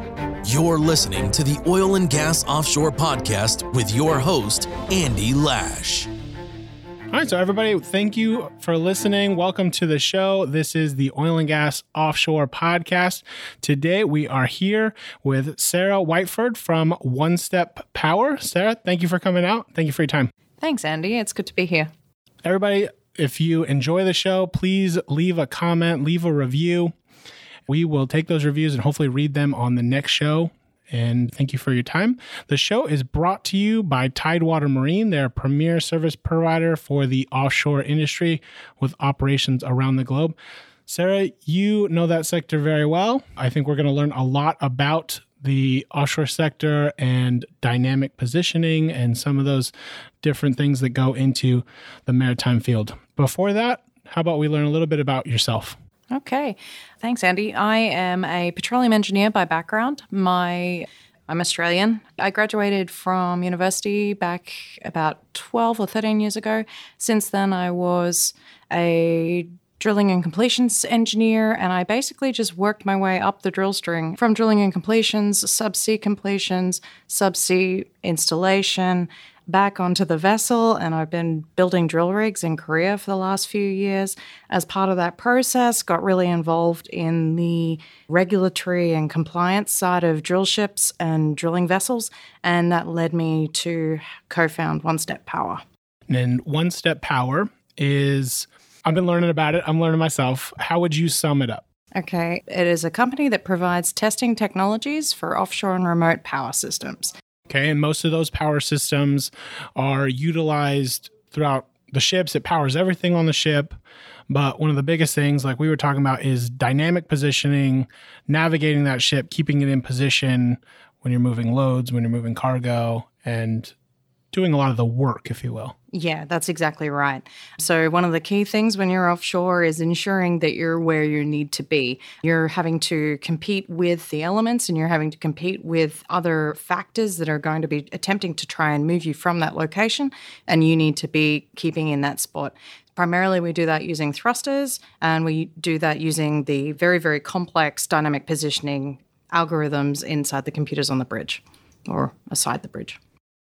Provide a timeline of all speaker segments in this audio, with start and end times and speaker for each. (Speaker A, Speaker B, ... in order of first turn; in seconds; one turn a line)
Speaker A: 0.5-6.1
Speaker B: 7.1-20.3
Speaker C: 20.6-21.9
Speaker B: 22.4-26.9
Speaker B: 27.7-40.4
Speaker B: 40.9-49.7
Speaker B: 50.2-55.8
Speaker C: 56.1-95.6
Speaker B: 96.1-101.6
Speaker C: 102.0-107.1
Speaker B: 107.5-113.8
Speaker B: 114.3-123.7
Speaker B: 124.3-125.8
Speaker C: 125.9-153.0